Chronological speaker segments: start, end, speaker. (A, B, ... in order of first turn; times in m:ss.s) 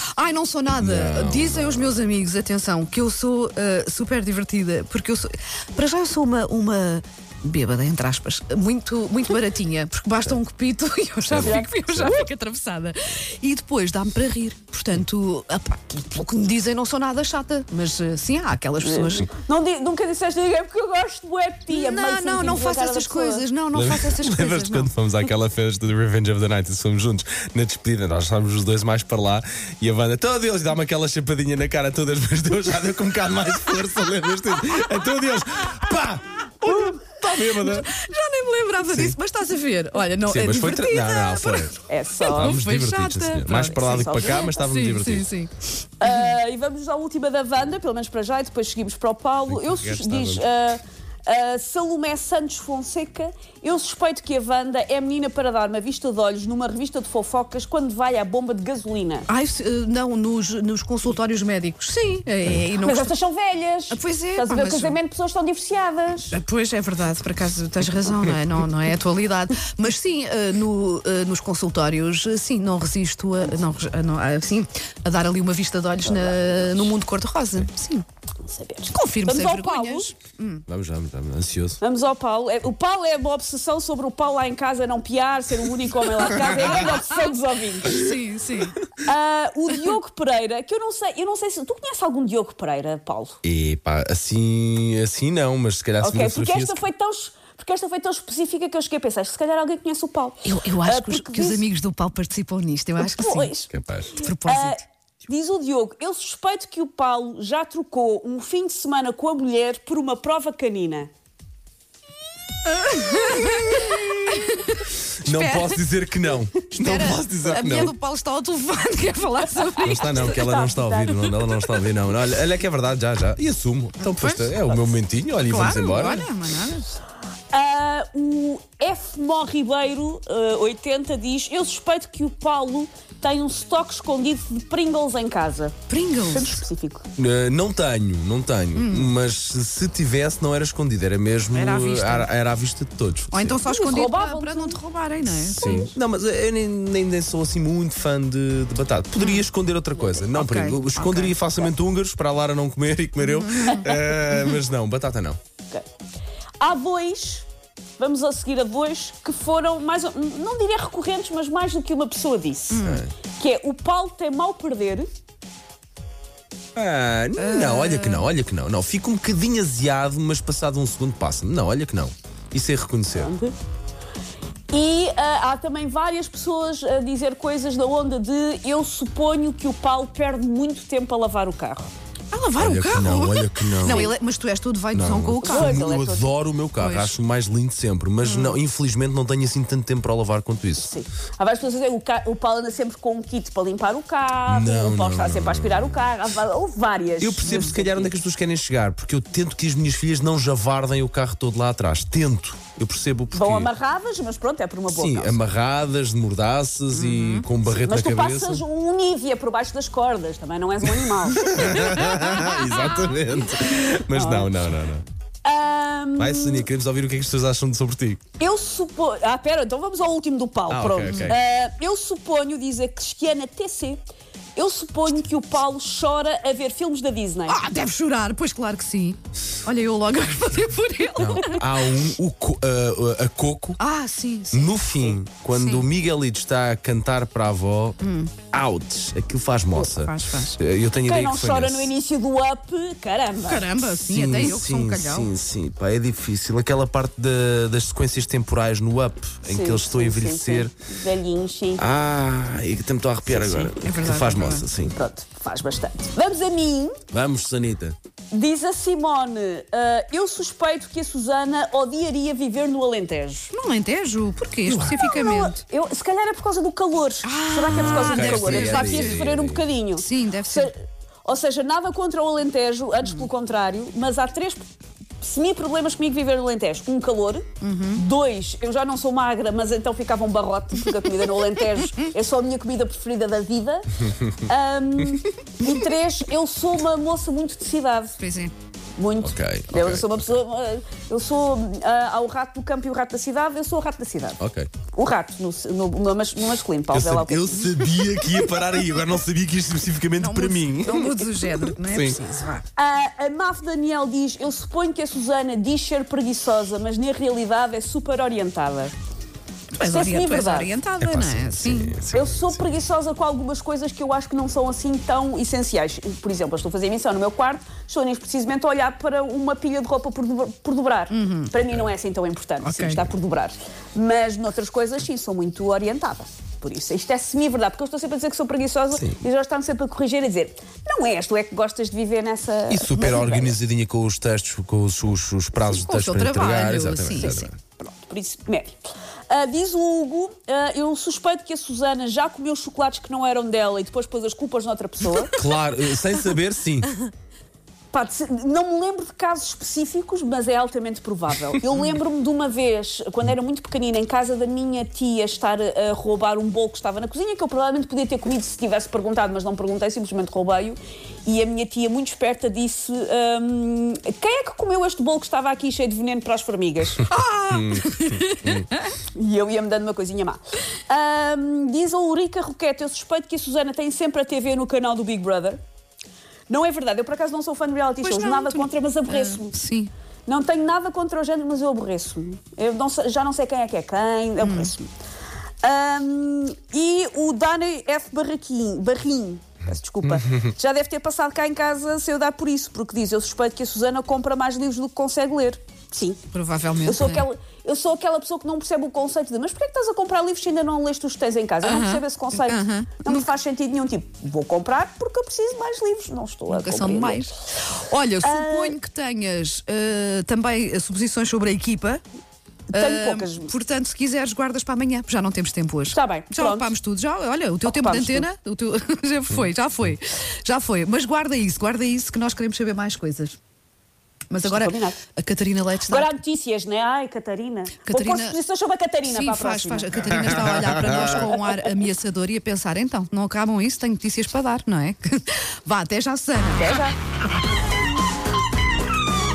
0:00.1-0:19.3 A
0:00.7-0:02.1 B
0:11.3-0:12.2 B
0:11.4-0:12.2 C
0:18.8-0:23.4 C
0:21.7-0:24.9 A
0:23.7-0:37.9 B
0:37.3-0:46.1 A
0:38.8-0:39.2 B
0:40.2-0:41.8 B
0:41.9-0:42.6 C
0:42.3-0:45.3 B
0:43.6-0:44.5 C
0:46.0-0:59.3 C
0:49.5-0:50.5 B
0:59.3-1:03.1 A
1:02.8-1:06.4 C
1:03.9-1:05.0 A
1:06.3-1:18.0 A
1:16.0-1:16.9 C
1:18.4-1:20.1 C
1:18.9-1:20.6 A
1:20.7-1:21.8 B
1:21.8-1:28.0 C
1:26.7-1:27.3 A
1:27.8-1:28.8 A
1:29.0-1:33.4 C
1:33.4-1:36.8 B
1:36.0-1:41.6 C
1:40.4-1:43.5 A
1:43.0-1:43.7 C
1:43.7-1:44.2 B
1:44.2-1:44.8 A
1:44.4-1:51.1 C
1:52.7-1:56.0 A
1:55.2-1:58.0 B
1:56.6-2:00.4 A
1:59.8-2:01.7 C
1:59.8-2:06.3 B
2:04.0-2:04.7 A
2:05.5-2:06.9 A
2:07.5-2:17.1 C
2:15.9-2:16.6 A
2:17.2-2:23.6 B
2:18.8-2:19.1 A
2:21.5-2:22.3 A
2:23.3-2:25.9 A
2:23.7-2:24.8 C
2:25.3-2:35.4 B
2:25.6-2:26.0 C
2:29.2-2:29.4 A
2:30.3-2:31.4 A
2:33.2-2:33.8 A
2:36.6-2:37.5 C
2:38.0-2:45.1 C
2:42.7-2:43.1 A
2:42.8-2:43.1 B
2:46.8-2:53.3 B
2:47.4-2:48.3 A
2:53.2-2:53.5 C
2:54.7-3:01.9 C
3:02.3-3:05.8 A
3:02.6-3:04.1 B
3:03.8-3:04.1 C
3:04.9-3:10.9 B
3:05.4-3:06.3 C
3:06.8-3:07.2 A
3:08.2-3:08.6 A
3:10.8-3:18.1 C
3:14.5-3:16.1 B
3:17.2-3:23.7 B
3:17.4-3:17.8 A
3:23.3-3:25.4 C
3:24.9-3:28.6 B
3:26.9-3:27.5 A
3:27.7-3:31.4 C
3:30.8-3:35.0 B
3:34.1-3:34.5 C
3:35.4-3:36.7 C
3:36.2-3:38.2 B
3:38.4-3:44.0 C
3:40.7-3:41.4 B
3:41.0-3:41.3 A
3:44.6-3:47.6 C
3:47.5-3:51.6 A
3:51.2-3:53.8 B
3:53.8-3:54.9 A
3:54.5-3:58.0 B
3:55.5-3:55.8 A
3:58.0-3:58.3 A
3:58.5-4:01.9 B
3:59.8-4:00.6 A
4:01.0-4:03.7 C
4:03.5-4:05.3 A
4:04.1-4:10.7 B
4:09.5-4:11.8 C
4:11.8-4:15.0 B
4:13.4-4:14.6 A
4:14.9-4:17.0 C
4:17.1-4:18.0 B
4:18.3-4:23.5 C
4:23.5-4:25.6 A
4:24.7-4:25.0 B
4:25.0-4:30.7 C
4:27.2-4:29.3 A
4:27.7-4:29.6 B
4:30.0-4:30.7 A
4:31.2-4:34.6 C
4:35.2-4:48.2 C
4:37.6-4:38.0 A
4:48.2-4:48.5 A
4:49.0-4:54.4 C
4:49.2-4:50.3 B
4:54.4-4:54.7 B
4:54.9-4:57.7 C
4:56.9-5:02.2 B
5:00.2-5:02.7 A
5:02.8-5:08.9 C
5:09.8-5:12.0 A
5:09.8-5:10.7 C
5:11.0-5:12.7 B
5:12.1-5:33.6 C
5:21.1-5:21.5 A
5:22.6-5:23.0 A
5:28.9-5:29.2 B
5:32.7-5:37.6 B
5:35.6-5:37.5 A
5:37.8-5:38.8 C
5:39.3-5:45.4 C
5:45.3-5:46.9 B
5:47.9-6:07.0 C
6:07.0-6:08.8 A
6:07.5-6:08.7 B
6:09.1-6:15.6 C
6:16.5-6:19.6 C
6:18.0-6:19.9 A
6:20.3-6:24.9 C
6:24.4-6:24.7 A
6:25.6-6:36.2 C
6:36.3-6:37.3 A
6:36.8-6:47.2 C
6:41.6-6:43.2 A
6:46.5-6:52.0 A
6:48.2-6:48.8 C
6:52.7-6:53.5 C
6:52.7-7:03.4 A
6:55.9-6:56.7 C
6:57.6-6:58.3 C
7:04.3-7:06.1 A
7:04.4-7:05.0 C
7:05.9-7:11.4 C
7:07.8-7:08.4 A
7:09.1-7:16.8 A
7:16.6-7:17.0 C